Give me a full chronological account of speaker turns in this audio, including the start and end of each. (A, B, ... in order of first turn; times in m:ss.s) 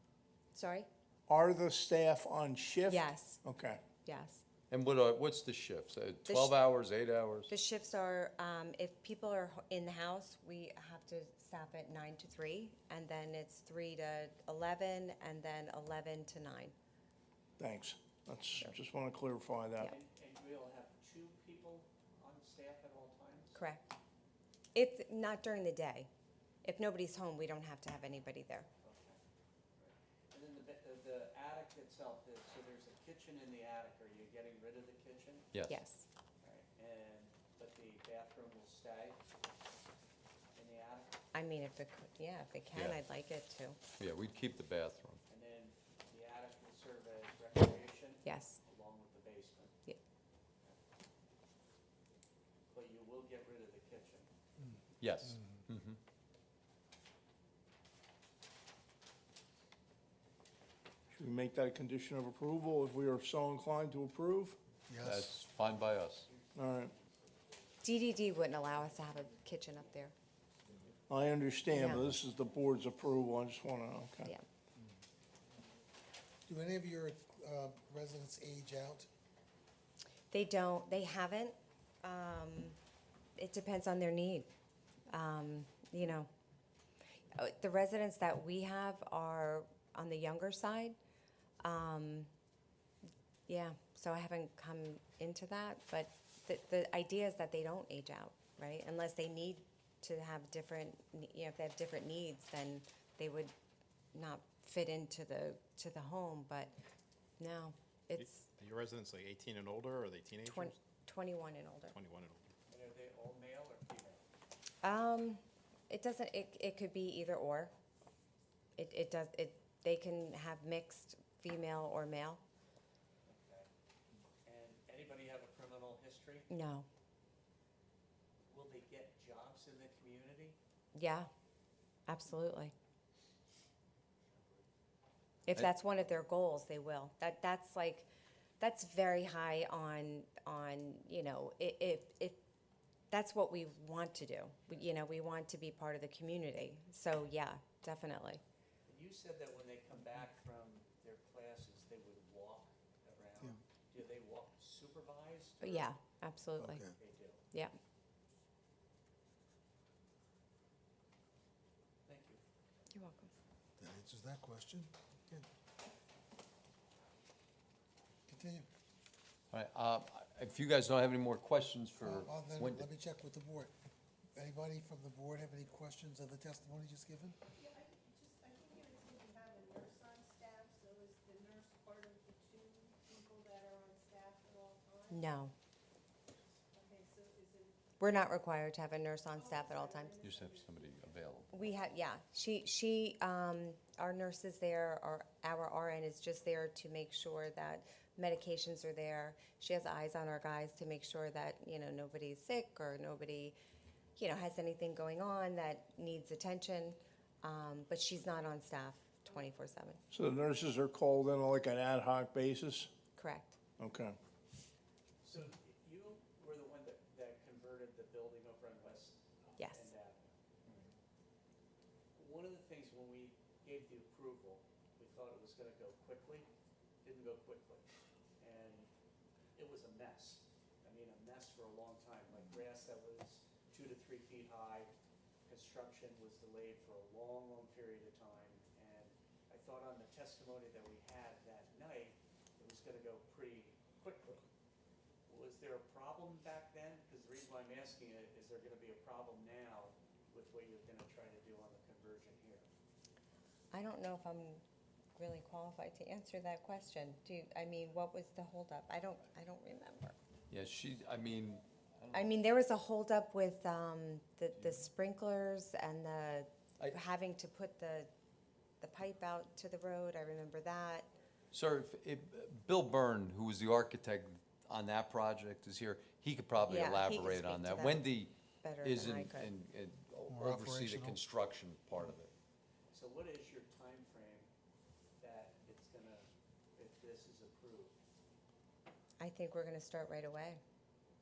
0:00.5-0:00.9 A
0:01.3-0:03.8 B
0:02.9-0:03.4 A
0:04.0-0:04.4 A
0:04.7-0:07.5 C
0:06.3-0:06.6 A
0:07.5-0:16.7 A
0:17.6-0:19.9 B
0:19.8-0:23.6 D
0:23.6-0:23.9 A
0:24.8-0:26.1 A
0:26.6-0:28.7 A
0:28.8-0:29.2 D
0:29.8-0:35.5 D
0:35.5-0:35.8 C
0:35.7-0:36.1 A
0:36.4-0:39.2 D
0:40.5-0:41.2 D
0:41.3-0:43.8 A
0:44.0-0:45.2 C
0:45.3-0:49.8 D
0:48.2-0:48.6 A
0:52.7-0:54.3 D
0:55.0-0:56.0 C
1:01.2-1:04.6 B
1:04.9-1:05.3 E
1:05.0-1:06.3 C
1:06.6-1:06.9 B
1:07.8-1:10.1 A
1:11.1-1:14.3 B
1:11.7-1:12.1 A
1:16.5-1:19.1 E
1:20.3-1:22.8 A
1:23.4-1:24.5 A
1:25.1-1:26.3 A
1:27.4-1:31.0 A
1:31.6-1:32.3 A
1:33.5-1:43.5 A
1:44.1-1:46.8 A
1:47.4-1:48.5 A
1:48.6-1:50.7 F
1:50.4-1:52.0 A
1:51.9-1:52.4 F
1:52.7-1:54.2 D
1:54.8-1:57.7 A
1:58.8-2:02.4 A
2:03.2-2:03.7 D
2:04.4-2:06.5 D
2:06.5-2:06.9 A
2:08.5-2:10.6 D
2:10.9-2:11.3 A
2:12.1-2:12.7 A
2:14.3-2:14.6 D
2:15.5-2:18.1 A
2:18.6-2:22.4 A
2:23.1-2:28.4 A
2:28.9-2:35.9 D
2:35.6-2:36.9 A
2:36.6-2:37.0 E
2:37.0-2:37.4 D
2:42.1-2:42.4 D
2:42.9-2:43.3 A
2:43.8-2:45.5 E
2:48.3-2:48.7 E
2:49.5-2:52.9 C
2:52.0-2:53.7 E
2:54.4-2:57.4 E
2:57.6-3:05.2 G
3:05.1-3:05.5 A
3:06.7-3:07.8 G
3:08.0-3:10.2 A
3:09.4-3:10.8 G
3:10.2-3:11.5 C
3:11.5-3:23.6 A
3:24.2-3:30.0 A
3:30.1-3:32.9 B
3:33.2-3:33.6 A
3:33.8-3:34.2 B
3:35.2-3:40.8 D
3:39.6-3:39.9 A
3:42.2-3:46.5 D
3:47.0-3:47.9 D
3:48.4-3:48.9 D
3:49.6-3:54.9 D
3:55.5-4:04.5 D
4:05.3-4:12.7 D
4:13.7-4:14.6 A
4:15.2-4:20.2 A
4:20.5-4:22.3 C
4:22.1-4:28.1 A
4:28.8-4:31.1 A
4:31.5-4:42.3 C
4:36.7-4:38.1 A
4:38.6-4:39.5 A
4:40.3-4:41.2 E
4:42.9-4:44.5 D
4:45.2-4:48.0 D
4:49.2-4:50.6 A